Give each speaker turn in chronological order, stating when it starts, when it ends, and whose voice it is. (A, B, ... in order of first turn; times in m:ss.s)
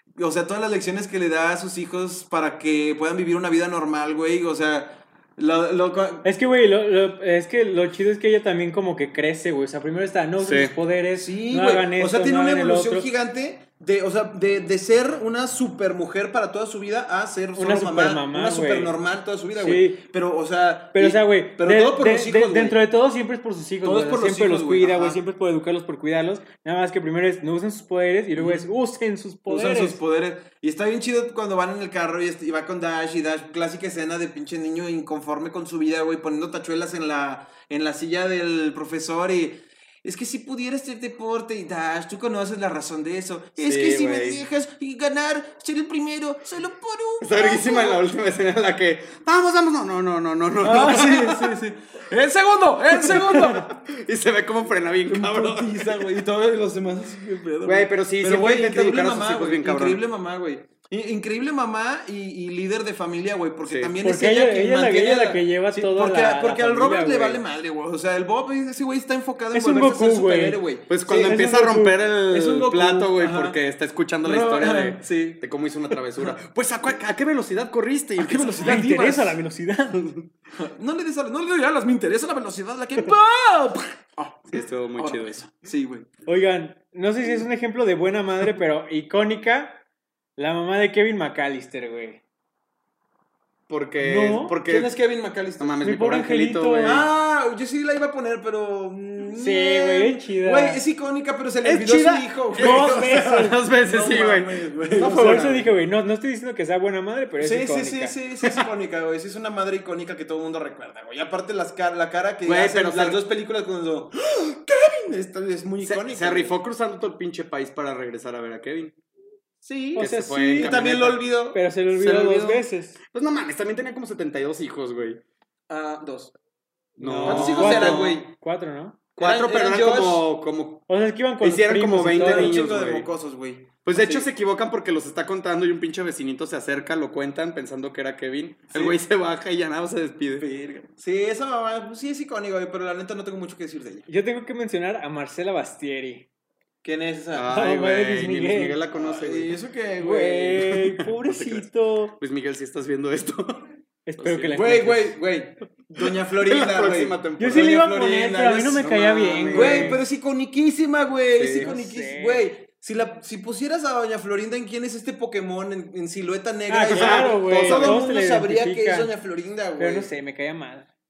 0:00.2-0:06.3 A
0:06.2-0:13.1 B
0:10.4-0:10.7 C
0:11.1-0:22.8 A
0:17.6-0:18.9 B
0:19.6-0:20.0 B
0:20.9-0:30.0 B
0:23.8-0:25.2 A
0:28.4-0:28.7 A
0:29.5-0:48.0 A
0:43.6-0:44.4 C
0:47.2-0:51.4 C
0:50.6-0:53.7 A
0:53.2-0:56.2 C
0:55.1-1:11.4 A
0:57.6-1:00.0 C
1:03.6-1:03.9 C
1:04.0-1:07.4 B
1:09.5-1:12.0 B
1:10.9-1:18.8 C
1:12.3-1:13.6 A
1:14.2-1:15.4 A
1:18.2-1:19.4 A
1:18.6-1:20.0 B
1:19.9-1:20.3 C
1:20.6-1:26.1 A
1:24.5-1:25.4 C
1:26.2-1:29.8 B
1:30.4-1:32.2 B
1:33.7-1:34.9 C
1:34.0-1:34.6 B
1:34.7-1:35.8 A
1:35.6-1:37.1 C
1:35.8-1:37.0 B
1:36.8-1:45.7 A
1:39.4-1:40.8 B
1:41.6-1:45.6 C
1:42.6-1:43.6 B
1:44.9-1:48.1 B
1:47.4-1:56.5 A
1:52.4-1:53.2 C
1:55.8-1:59.0 C
1:59.6-2:01.6 A
1:59.9-2:00.8 B
2:00.0-2:01.3 C
2:01.5-2:03.0 B
2:01.9-2:05.2 C
2:05.7-2:06.4 A
2:07.0-2:08.2 C
2:07.0-2:09.0 B
2:07.2-2:08.3 A
2:09.2-2:10.2 A
2:09.2-2:10.9 C
2:10.9-2:12.6 B
2:11.4-2:13.1 C
2:12.1-2:14.3 A
2:13.8-2:20.5 C
2:18.7-2:19.0 A
2:20.4-2:24.1 A
2:24.1-2:26.3 B
2:26.8-2:27.5 A
2:27.3-2:29.5 C
2:27.5-2:28.8 B
2:29.0-2:30.8 A
2:30.0-2:32.2 B
2:31.0-2:33.6 C
2:34.0-2:35.1 B
2:34.2-2:34.9 C
2:34.5-2:38.9 A
2:36.0-2:37.7 C
2:37.4-2:40.0 B
2:38.8-2:40.0 C
2:39.5-2:50.1 A
2:41.3-2:41.7 C
2:41.5-2:42.5 B
2:46.7-2:49.1 B
2:46.9-2:48.0 C
2:49.8-2:50.9 B